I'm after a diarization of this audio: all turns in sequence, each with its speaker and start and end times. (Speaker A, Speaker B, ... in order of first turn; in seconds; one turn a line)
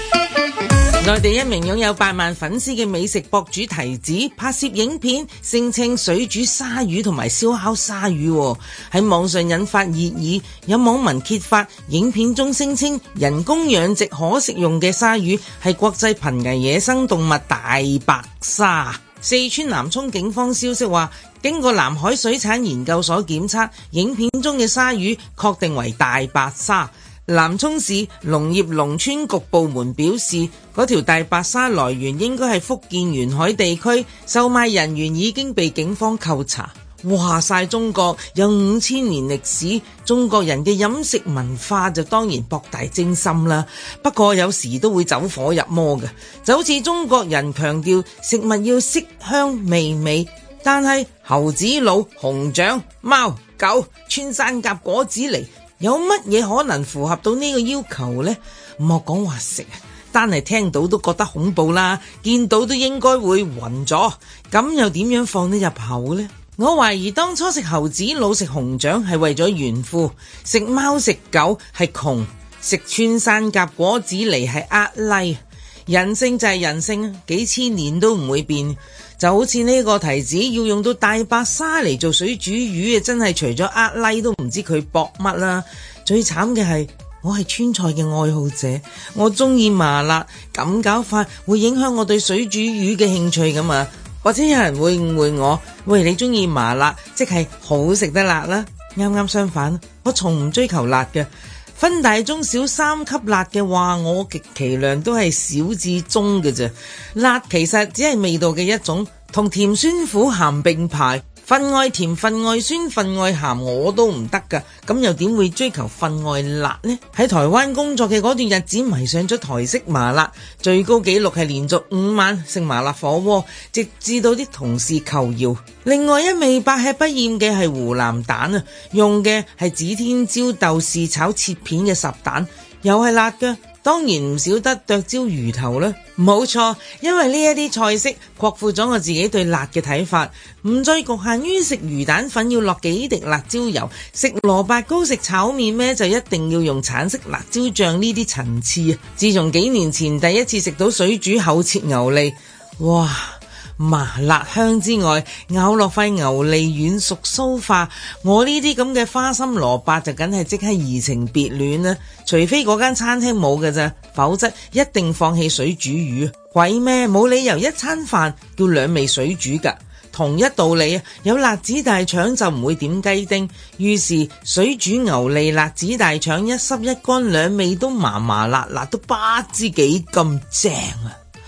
Speaker A: 1.0-181.2